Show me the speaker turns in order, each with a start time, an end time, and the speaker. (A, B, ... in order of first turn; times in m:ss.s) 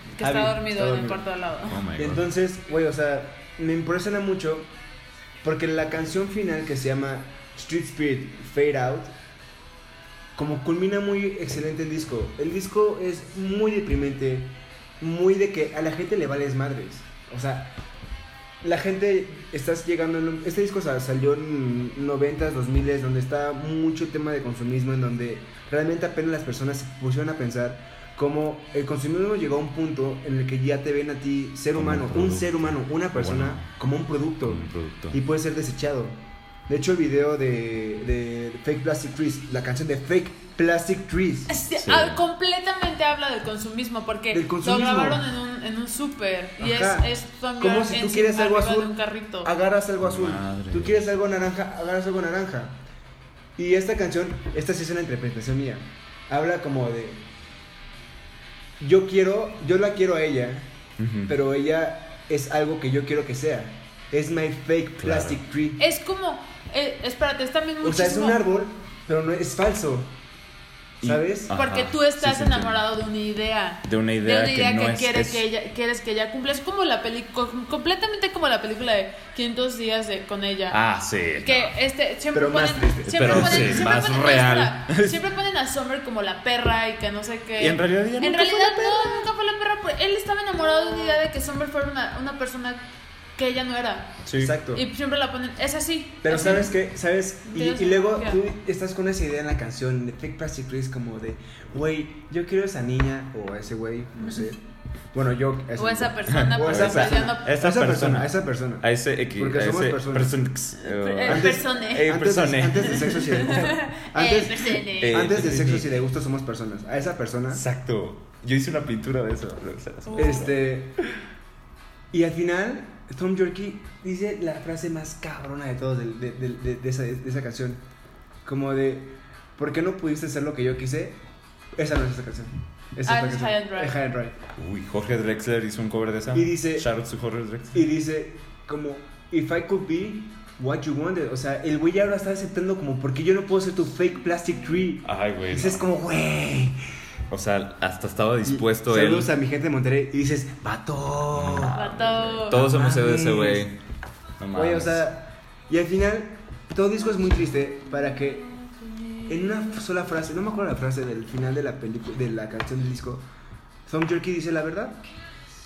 0:00.2-0:01.2 A
0:00.2-0:01.8 B
0:01.7-0:02.3 C
0:02.0-0:04.7 A
0:05.4-0:09.1 A
0:10.3-0:17.8 A
0:18.6-0:41.5 A
0:31.7-0:33.7 C
0:34.4-0:35.2 C
0:41.5-0:49.5 B
0:41.7-0:42.2 C
0:44.3-0:45.2 A
0:46.6-0:52.8 A
0:50.0-0:51.0 C
0:53.6-0:57.2 A
0:58.8-1:00.7 A
1:01.0-1:01.3 C
1:01.3-1:05.8 A
1:05.0-1:05.4 C
1:05.8-1:08.4 B
1:07.8-1:10.1 A
1:11.0-1:11.5 A
1:11.0-1:12.8 C
1:11.5-1:20.8 B
1:13.8-1:15.4 C
1:20.7-1:21.7 C
1:21.4-1:32.8 B
1:22.3-1:23.9 A
1:23.1-1:25.2 C
1:27.6-1:29.3 C
1:33.4-1:36.7 B
1:34.2-1:34.6 C
1:34.3-1:34.8 A
1:36.2-1:50.4 A
1:37.5-1:38.4 B
1:45.8-1:47.5 B
1:46.3-1:53.2 C
1:50.8-1:52.1 B
1:51.2-1:57.6 A
1:52.9-1:55.2 B
1:55.0-1:55.9 C
1:57.5-2:00.5 C
2:00.0-2:00.5 B
2:00.2-2:01.0 A
2:02.1-2:07.8 A
2:08.4-2:11.2 A
2:11.8-2:14.4 A
2:13.0-2:14.0 B
2:14.5-2:17.8 C
2:16.3-2:16.8 A
2:17.7-2:26.8 A
2:25.0-2:25.8 C
2:27.3-2:29.3 C
2:28.4-2:33.7 A
2:31.3-2:33.7 C
2:31.7-2:32.6 B
2:34.4-2:35.0 C
2:34.5-2:38.5 A
2:39.2-2:43.2 A
2:43.8-2:45.0 A